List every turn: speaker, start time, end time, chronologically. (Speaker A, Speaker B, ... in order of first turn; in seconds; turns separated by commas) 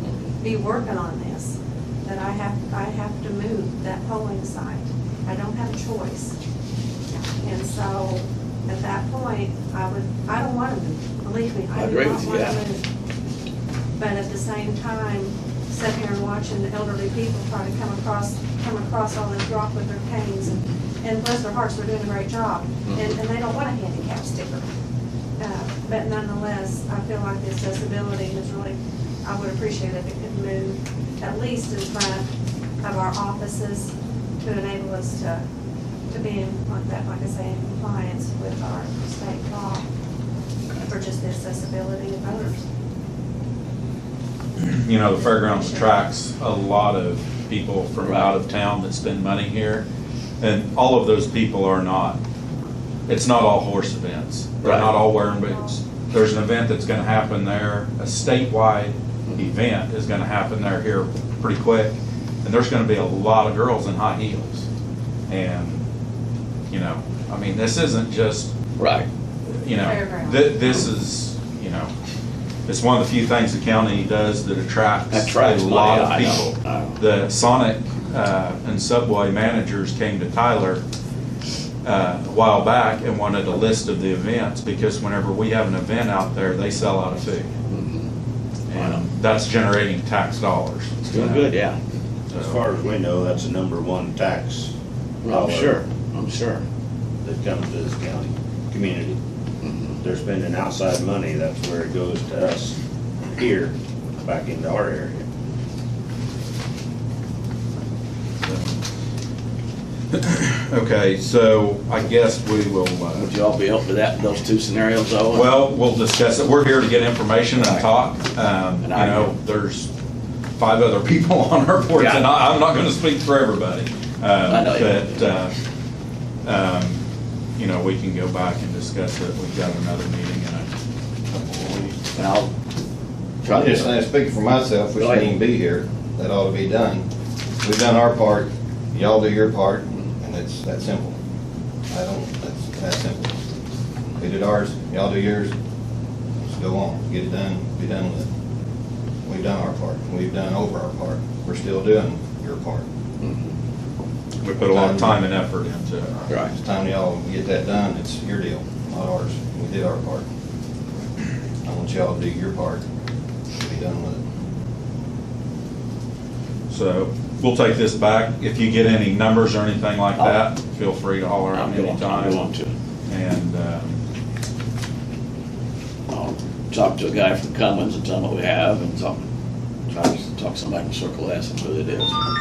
Speaker A: 0.4-6.3, Speaker A: 7.1-12.8, Speaker B: 11.7-12.6, Speaker A: 14.0-24.6, Speaker A: 25.4-32.2, Speaker A: 32.8-35.4, Speaker A: 36.1-39.9, Speaker A: 40.8-42.7, Speaker C: 44.6-49.8, Speaker A: 45.2-46.0, Speaker B: 48.0-48.4, Speaker C: 50.4-52.2, Speaker C: 53.1-64.7, Speaker B: 54.6-54.9, Speaker A: 54.8-55.8, Speaker C: 65.3-65.8, Speaker C: 66.7-68.5, Speaker B: 68.8-69.1, Speaker C: 69.6-71.9, Speaker A: 69.8-70.6, Speaker C: 72.7-80.8, Speaker B: 75.1-77.0, Speaker C: 81.8-87.5, Speaker B: 87.7-88.1, Speaker C: 88.7-91.5, Speaker B: 88.7-89.0, Speaker B: 91.0-91.8, Speaker D: 92.3-94.7, Speaker C: 92.3-92.6, Speaker B: 95.2-96.6, Speaker D: 95.2-95.8, Speaker D: 97.2-99.2, Speaker B: 99.6-100.0, Speaker D: 100.0-105.2, Speaker C: 108.4-108.8, Speaker C: 110.1-113.3, Speaker B: 113.2-115.6, Speaker C: 115.3-119.9, Speaker B: 117.5-117.9, Speaker B: 118.8-119.3, Speaker C: 120.6-125.5, Speaker B: 121.9-122.3, Speaker B: 124.5-125.4, Speaker C: 126.4-127.0, Speaker C: 127.6-130.7, Speaker E: 131.4-131.8, Speaker B: 132.2-132.5, Speaker B: 133.4-133.9, Speaker E: 133.4-137.1, Speaker B: 135.0-135.3, Speaker E: 137.6-141.2, Speaker E: 141.9-143.4, Speaker E: 144.2-145.5, Speaker E: 146.4-148.3, Speaker E: 149.2-152.8, Speaker C: 154.4-156.1, Speaker E: 154.6-155.3, Speaker E: 156.1-160.2, Speaker E: 161.6-162.8, Speaker E: 163.5-164.2, Speaker C: 166.7-172.5, Speaker B: 170.2-170.4, Speaker B: 171.5-172.8, Speaker C: 173.1-174.0, Speaker B: 176.1-179.2, Speaker B: 179.9-182.2